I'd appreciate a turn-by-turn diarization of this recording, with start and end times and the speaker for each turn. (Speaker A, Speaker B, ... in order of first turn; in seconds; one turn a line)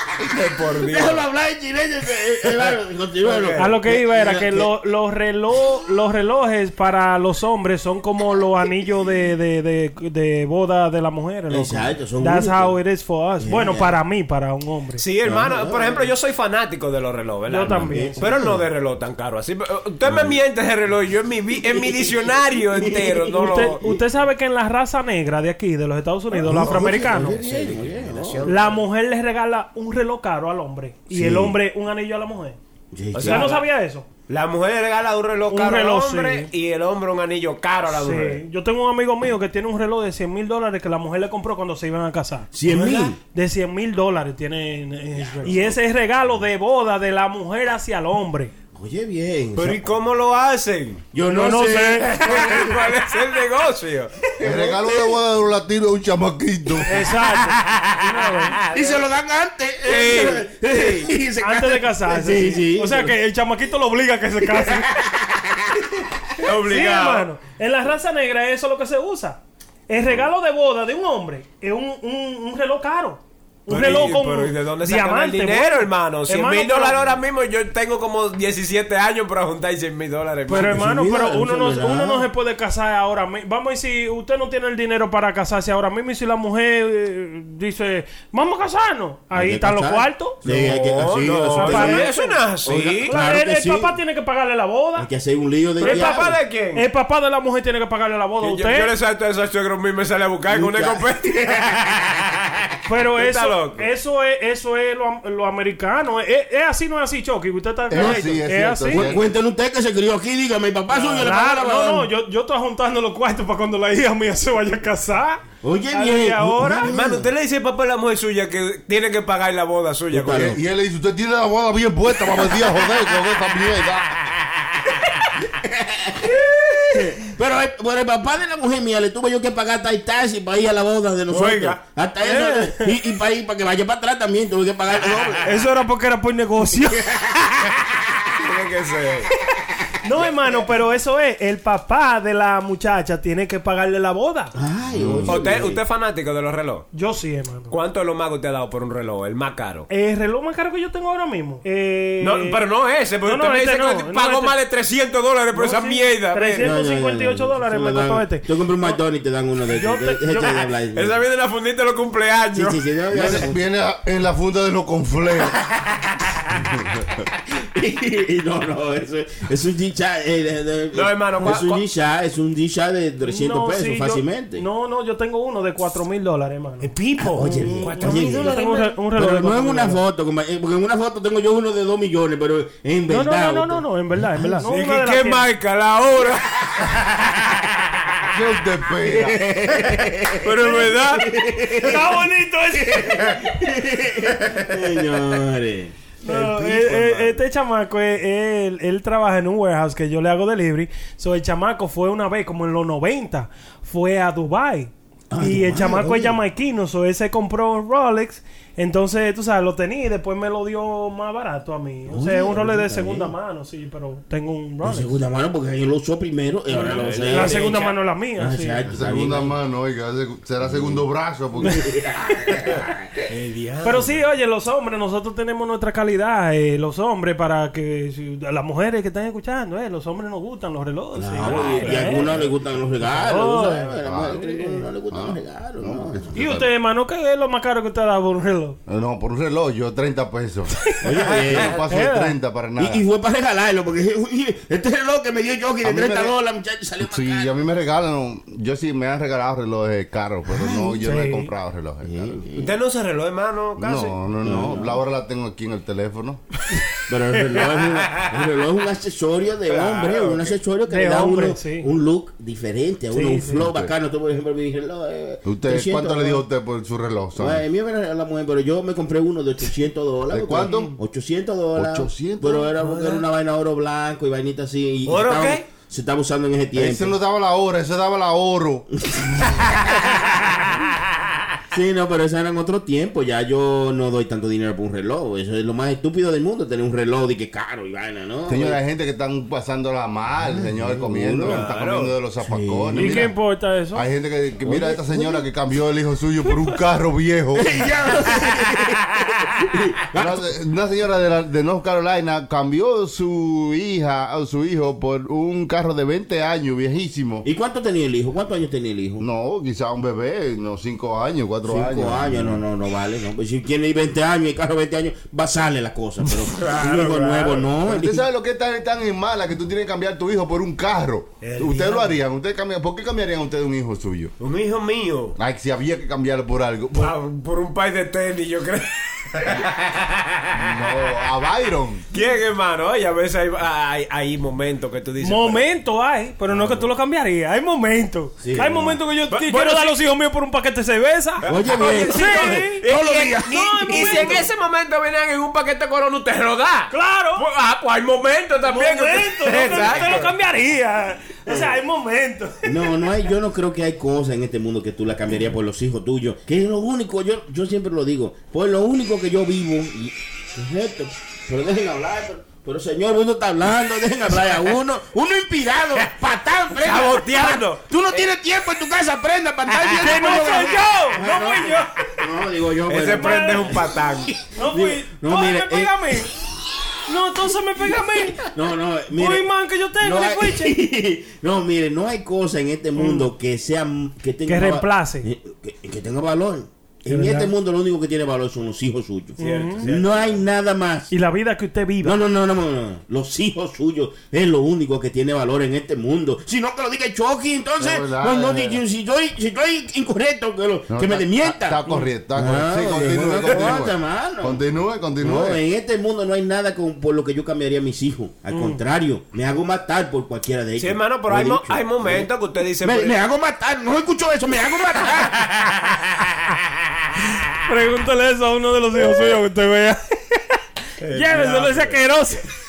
Speaker A: 0.2-1.2
Speaker B: 0.7-4.8
Speaker A: 3.2-3.8
Speaker C: 3.6-15.0
Speaker B: 11.5-12.8
Speaker B: 13.4-14.0
Speaker A: 15.0-23.8
Speaker B: 15.2-16.1
Speaker C: 17.5-18.2
Speaker B: 17.6-18.7
Speaker B: 20.1-20.4
Speaker B: 21.6-24.0
Speaker C: 23.4-27.4
Speaker B: 26.3-28.5
Speaker A: 26.5-28.8
Speaker C: 28.5-32.6
Speaker B: 31.1-31.6
Speaker B: 32.9-33.5
Speaker A: 33.1-33.6
Speaker C: 33.2-34.0
Speaker A: 34.3-38.4
Speaker C: 35.5-36.5
Speaker C: 37.9-48.5
Speaker B: 42.5-43.2
Speaker B: 45.3-45.7
Speaker B: 48.7-49.9
Speaker A: 49.5-51.0
Speaker B: 51.1-53.2
Speaker C: 51.2-52.1
Speaker A: 52.1-54.3
Speaker B: 54.4-55.2
Speaker D: 54.4-57.0
Speaker C: 56.9-58.5
Speaker A: 57.3-59.0
Speaker B: 58.6-63.2
Speaker A: 59.8-61.1
Speaker C: 61.4-65.0
Speaker B: 64.4-66.2
Speaker A: 66.4-67.3
Speaker C: 66.4-77.0
Speaker A: 73.7-80.8
Speaker C: 80.5-90.4
Speaker B: 80.5-82.3
Speaker B: 89.3-92.1
Speaker A: 90.4-93.2
Speaker C: 91.5-92.4
Speaker B: 92.6-93.9
Speaker C: 93.0-95.1
Speaker B: 95.0-96.4
Speaker A: 95.8-96.9
Speaker C: 95.8-98.9
Speaker A: 98.4-103.8
Speaker B: 100.5-102.0
Speaker C: 102.8-109.1
Speaker D: 107.9-109.3
Speaker B: 107.9-108.3
Speaker B: 108.9-112.1
Speaker C: 110.9-116.9
Speaker B: 115.6-117.3
Speaker A: 116.6-120.6
Speaker B: 120.1-120.6
Speaker D: 120.3-124.2
Speaker A: 124.6-125.3
Speaker B: 125.6-135.5
Speaker A: 131.3-131.8
Speaker C: 132.2-132.9
Speaker C: 135.4-137.1
Speaker B: 136.8-137.5
Speaker A: 138.3-139.3
Speaker C: 140.0-144.5
Speaker B: 144.5-145.8
Speaker D: 144.9-145.4
Speaker A: 145.2-146.9
Speaker C: 146.9-147.7
Speaker A: 147.7-149.9
Speaker C: 149.9-152.6
Speaker A: 152.2-156.7
Speaker C: 153.2-154.5
Speaker C: 155.5-159.0
Speaker B: 156.6-161.2
Speaker C: 159.7-160.7
Speaker A: 160.9-162.8
Speaker B: 162.5-163.6
Speaker D: 163.1-165.6
Speaker D: 166.5-167.2
Speaker B: 167.5-174.6
Speaker A: 170.9-171.8
Speaker C: 173.2-176.9
Speaker A: 176.8-179.0
Speaker B: 177.2-178.6
Speaker C: 177.4-180.0
Speaker B: 179.1-184.6
Speaker C: 183.1-185.4
Speaker A: 184.6-188.2
Speaker D: 188.3-189.4
Speaker B: 189.0-195.9
Speaker A: 189.9-191.3
Speaker C: 191.8-193.4
Speaker C: 196.2-215.1
Speaker D: 196.2-197.4
Speaker B: 205.3-206.4
Speaker B: 212.1-213.3
Speaker B: 214.8-217.8
Speaker A: 216.7-218.0
Speaker C: 216.7-218.8
Speaker B: 218.3-219.6
Speaker D: 218.8-222.0
Speaker B: 220.6-221.0
Speaker B: 221.6-223.2
Speaker A: 223.3-224.2
Speaker C: 223.8-232.2
Speaker B: 231.1-236.4
Speaker A: 231.4-232.4
Speaker C: 233.0-233.9
Speaker D: 234.0-236.7
Speaker C: 236.3-238.8
Speaker D: 238.9-243.0
Speaker B: 241.0-241.8
Speaker A: 241.2-241.8
Speaker C: 241.9-242.4
Speaker B: 242.8-247.6
Speaker D: 245.8-246.3
Speaker D: 247.0-252.4
Speaker B: 250.4-251.0
Speaker C: 251.0-251.5
Speaker B: 252.0-252.8
Speaker A: 252.6-254.2
Speaker D: 253.8-256.4
Speaker B: 254.4-255.0
Speaker B: 257.1-266.4
Speaker A: 259.7-260.5
Speaker C: 260.9-261.9
Speaker C: 263.1-263.6
Speaker D: 263.6-263.9
Speaker D: 265.4-267.6
Speaker B: 267.3-277.2
Speaker D: 270.3-270.9
Speaker D: 271.8-272.7
Speaker A: 272.8-273.2
Speaker A: 275.1-275.6
Speaker D: 276.7-279.8
Speaker B: 279.1-279.7
Speaker B: 281.7-288.8
Speaker D: 288.5-293.4
Speaker B: 290.4-291.7
Speaker A: 291.4-292.1
Speaker B: 292.4-293.3
Speaker C: 292.9-294.1
Speaker D: 293.9-297.8
Speaker B: 294.6-295.4
Speaker B: 297.5-300.5
Speaker D: 300.1-307.4
Speaker B: 307.4-309.2
Speaker D: 309.2-312.6
Speaker B: 311.6-318.2
Speaker A: 316.5-317.7
Speaker D: 317.8-324.3
Speaker A: 321.4-322.2
Speaker A: 324.4-325.4
Speaker D: 325.4-327.1
Speaker A: 326.9-330.8
Speaker D: 330.5-332.0
Speaker A: 332.1-335.6
Speaker C: 335.2-342.9
Speaker B: 338.4-339.0
Speaker A: 339.3-340.0
Speaker A: 341.4-350.3
Speaker B: 341.4-344.4
Speaker C: 343.4-344.4
Speaker C: 346.9-347.4
Speaker C: 348.6-352.9
Speaker B: 351.5-351.8
Speaker B: 352.6-376.2
Speaker A: 366.7-368.3
Speaker A: 369.7-370.5
Speaker C: 369.9-371.9
Speaker A: 372.9-374.3
Speaker C: 373.1-373.7
Speaker C: 374.5-376.3
Speaker C: 377.1-378.4
Speaker B: 378.4-379.5
Speaker C: 379.1-380.7
Speaker B: 380.0-391.1
Speaker C: 383.0-383.3
Speaker C: 384.4-385.3
Speaker C: 387.1-387.5
Speaker C: 389.4-389.9
Speaker A: 389.4-390.4
Speaker C: 391.1-392.2
Speaker B: 392.0-404.6
Speaker D: 397.8-398.8
Speaker D: 400.9-405.6
Speaker B: 405.2-415.5
Speaker C: 408.5-408.8
Speaker A: 410.8-413.2
Speaker A: 415.4-416.0
Speaker C: 417.6-420.4
Speaker A: 421.0-422.0
Speaker C: 421.1-422.4